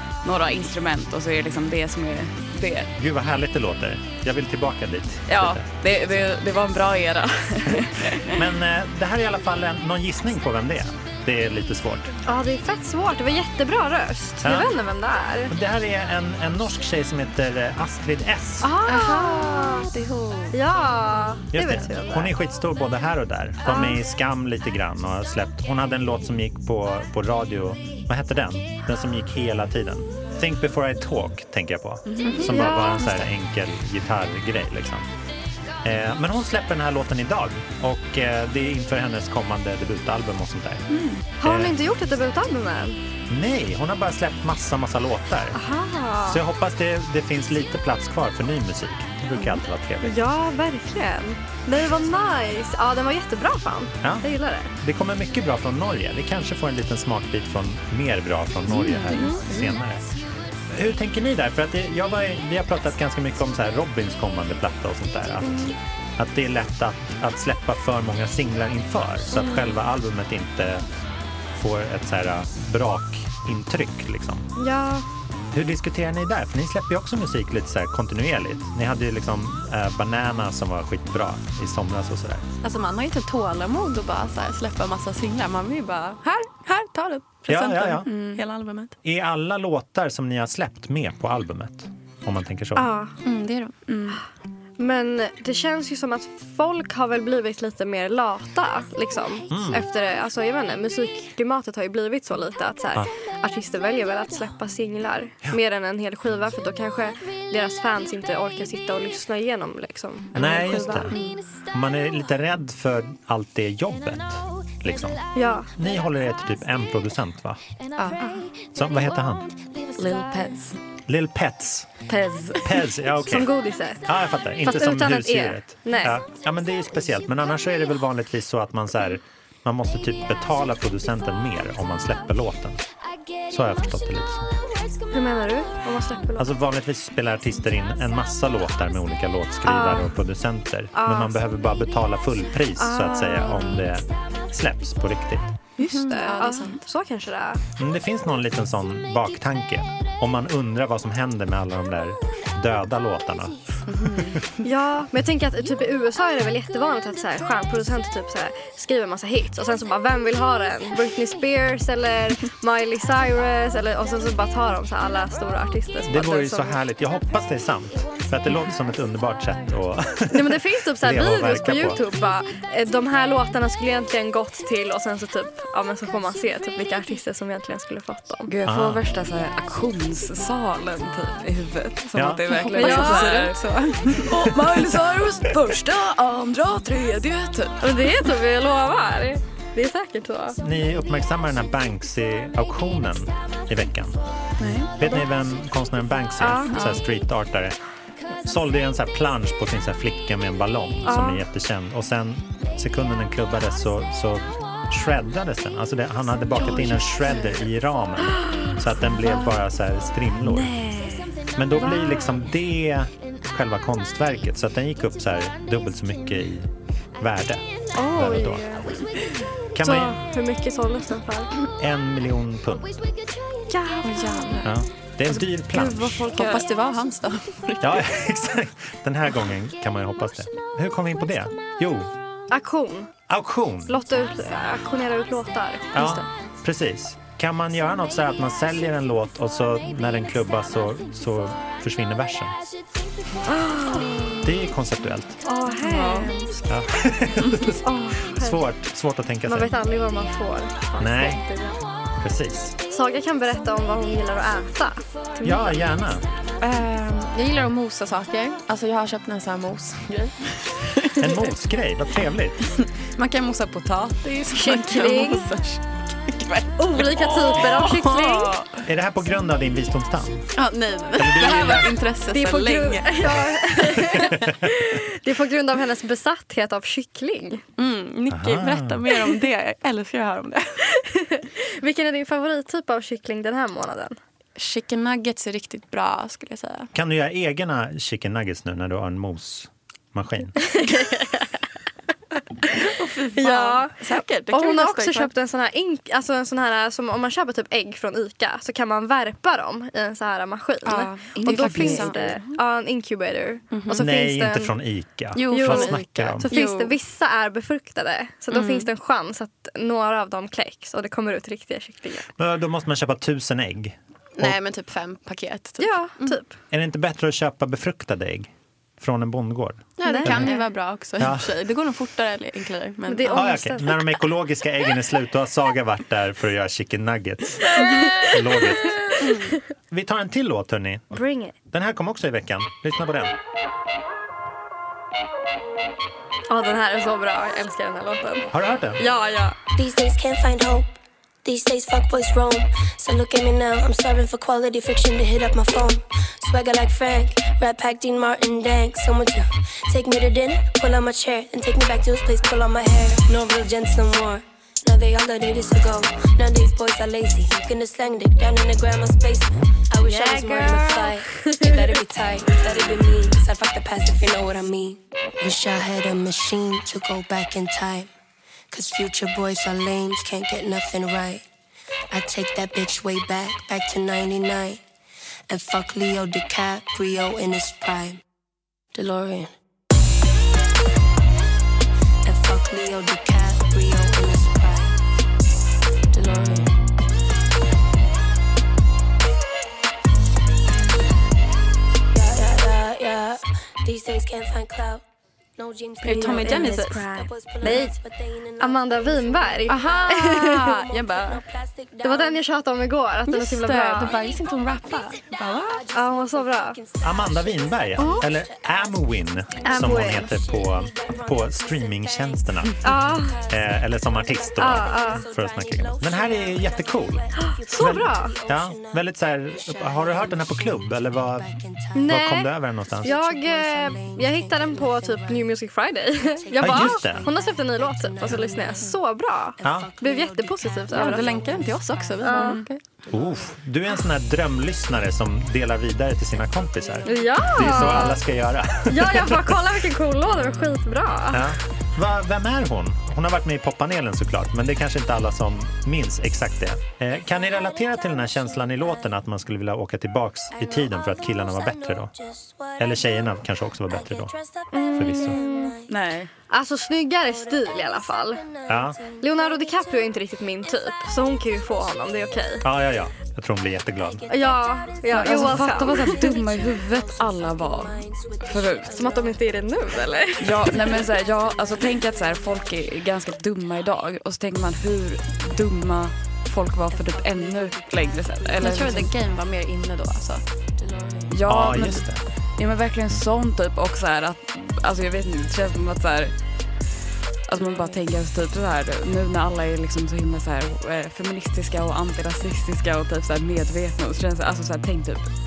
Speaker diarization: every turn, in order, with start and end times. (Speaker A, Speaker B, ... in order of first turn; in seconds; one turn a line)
Speaker A: 0.2-2.9
Speaker B: 3.0-5.7
Speaker A: 5.3-8.4
Speaker B: 8.2-12.1
Speaker C: 12.2-15.5
Speaker B: 14.4-14.7
Speaker B: 15.5-18.7
Speaker C: 18.6-19.9
Speaker D: 18.8-20.6
Speaker C: 20.5-22.3
Speaker B: 21.5-35.1
Speaker C: 23.6-24.0
Speaker A: 32.1-32.5
Speaker D: 32.2-32.5
Speaker C: 32.5-33.3
Speaker B: 35.8-40.8
Speaker A: 40.9-41.2
Speaker C: 41.4-43.0
Speaker B: 41.4-41.8
Speaker B: 43.3-45.6
Speaker C: 45.5-46.4
Speaker B: 46.3-50.2
Speaker C: 49.4-54.7
Speaker B: 54.8-60.0
Speaker C: 58.9-59.4
Speaker D: 59.2-59.8
Speaker B: 60.7-70.8
Speaker C: 65.4-65.8
Speaker C: 69.4-69.7
Speaker B: 71.6-74.5
Speaker C: 74.6-75.1
Speaker B: 75.5-82.4
Speaker D: 82.6-89.0
Speaker B: 87.5-88.1
Speaker A: 88.0-88.4
Speaker B: 89.0-92.9
Speaker C: 92.8-93.2
Speaker D: 93.2-93.8
Speaker A: 93.9-94.2
Speaker C: 94.8-111.2
Speaker B: 99.5-99.9
Speaker B: 110.3-111.2
Speaker D: 111.1-111.4
Speaker B: 111.7-115.2
Speaker C: 115.3-115.7
Speaker B: 115.8-117.6
Speaker C: 118.2-118.5
Speaker B: 118.7-119.5
Speaker A: 120.0-120.8
Speaker B: 121.1-121.9
Speaker A: 122.1-122.8
Speaker B: 122.6-123.5
Speaker C: 123.3-124.1
Speaker B: 124.0-132.8
Speaker C: 124.6-126.2
Speaker B: 133.5-134.5
Speaker C: 135.1-136.5
Speaker B: 136.4-145.6
Speaker C: 139.6-140.1
Speaker C: 140.9-141.4
Speaker C: 142.8-143.6
Speaker D: 143.4-143.7
Speaker D: 145.8-146.8
Speaker C: 145.8-147.6
Speaker B: 147.8-154.3
Speaker D: 153.9-154.6
Speaker C: 154.6-166.8
Speaker B: 166.1-172.0
Speaker C: 170.3-178.5
Speaker A: 178.5-188.1
Speaker B: 178.7-179.0
Speaker B: 182.1-182.4
Speaker D: 182.5-184.3
Speaker C: 182.7-183.5
Speaker B: 184.4-184.8
Speaker C: 187.8-190.6
Speaker B: 190.6-194.2
Speaker A: 194.6-194.9
Speaker B: 195.0-197.8
Speaker C: 196.4-197.0
Speaker B: 198.4-210.7
Speaker C: 201.0-201.4
Speaker C: 208.4-209.4
Speaker C: 210.5-212.3
Speaker B: 211.6-218.9
Speaker C: 217.9-221.5
Speaker B: 219.7-220.2
Speaker B: 221.8-223.0
Speaker C: 223.7-224.6
Speaker D: 224.0-224.7
Speaker B: 224.6-226.2
Speaker A: 225.3-226.7
Speaker D: 226.3-228.1
Speaker B: 227.8-232.1
Speaker C: 232.5-233.1
Speaker B: 233.3-233.9
Speaker C: 233.9-236.1
Speaker B: 235.9-242.7
Speaker D: 236.0-236.2
Speaker C: 243.4-244.4
Speaker B: 244.4-245.4
Speaker C: 245.4-246.7
Speaker D: 245.8-246.3
Speaker B: 246.7-249.8
Speaker C: 247.8-248.6
Speaker C: 249.4-251.8
Speaker B: 251.0-251.4
Speaker B: 252.2-252.8
Speaker C: 252.9-255.8
Speaker B: 255.4-256.2
Speaker D: 256.6-261.5
Speaker B: 261.2-262.7
Speaker D: 262.8-268.8
Speaker C: 264.5-265.5
Speaker C: 266.8-268.5
Speaker B: 268.9-270.5
Speaker D: 270.6-274.4
Speaker B: 271.2-271.9
Speaker C: 272.3-277.6
Speaker B: 274.1-274.6
Speaker D: 277.8-280.8
Speaker B: 278.3-279.0
Speaker C: 281.0-284.2
Speaker D: 284.6-286.9
Speaker B: 286.9-290.6
Speaker C: 290.6-291.5
Speaker D: 292.7-295.3
Speaker C: 293.4-304.8
Speaker D: 300.9-302.4
Speaker A: 301.4-302.4
Speaker D: 303.7-304.1
Speaker B: 303.9-306.5
Speaker D: 305.4-307.0
Speaker C: 305.5-312.3
Speaker D: 308.5-308.9
Speaker B: 312.4-314.6
Speaker D: 314.4-316.4
Speaker C: 315.8-316.5
Speaker B: 316.7-320.5
Speaker D: 320.0-323.6
Speaker C: 320.1-320.7
Speaker B: 321.2-321.5
Speaker C: 323.1-324.2
Speaker B: 323.3-329.0
Speaker C: 327.8-329.4
Speaker D: 329.2-329.6
Speaker B: 329.9-331.2
Speaker C: 331.1-331.6
Speaker B: 331.7-333.3
Speaker C: 336.5-339.6
Speaker B: 338.5-339.0
Speaker E: 339.8-368.1
Speaker C: 360.0-361.9
Speaker E: 368.7-371.4
Speaker E: 372.1-374.8
Speaker E: 375.5-378.2
Speaker E: 378.9-379.5
Speaker E: 382.2-385.0
Speaker E: 386.1-386.7
Speaker E: 392.1-395.0
Speaker E: 395.6-402.4
Speaker D: 396.0-397.1
Speaker C: 396.1-397.9
Speaker C: 398.6-400.8
Speaker D: 399.7-401.4
Speaker C: 402.0-404.2
Speaker D: 403.3-405.8
Speaker E: 405.4-422.4
Speaker C: 405.9-406.8
Speaker B: 407.0-412.8
Speaker C: 408.0-408.3
Speaker C: 409.6-410.3
Speaker C: 412.8-413.4
Speaker B: 413.5-421.5
Speaker C: 414.6-415.3
Speaker C: 417.4-418.4
Speaker C: 421.9-422.5
Speaker B: 422.1-423.1
Speaker E: 423.0-425.6
Speaker C: 423.0-431.4
Speaker E: 426.2-429.0
Speaker B: 426.6-427.3
Speaker E: 429.6-432.5
Speaker B: 429.6-429.9
Speaker D: 430.9-432.8
Speaker C: 432.2-432.6
Speaker B: 433.1-439.6
Speaker E: 437.0-437.4
Speaker C: 437.1-438.2
Speaker C: 438.9-441.5
Speaker B: 441.3-452.1
Speaker E: 447.9-448.8
Speaker E: 450.6-453.3
Speaker B: 452.8-454.3
Speaker E: 453.9-455.9
Speaker C: 454.7-455.8
Speaker B: 454.9-455.4
Speaker A: 455.9-456.3
Speaker C: 456.5-458.4
Speaker E: 457.3-462.6
Speaker B: 458.7-459.0
Speaker C: 459.2-462.6
Speaker B: 462.6-464.3
Speaker E: 464.0-471.8
Speaker C: 464.3-466.3
Speaker A: 465.1-469.0
Speaker C: 468.9-470.8
Speaker A: 470.4-479.1
Speaker E: 476.9-478.9
Speaker D: 478.6-480.4
Speaker E: 480.8-481.4
Speaker A: 481.3-486.3
Speaker B: 481.4-482.2
Speaker A: 487.5-495.3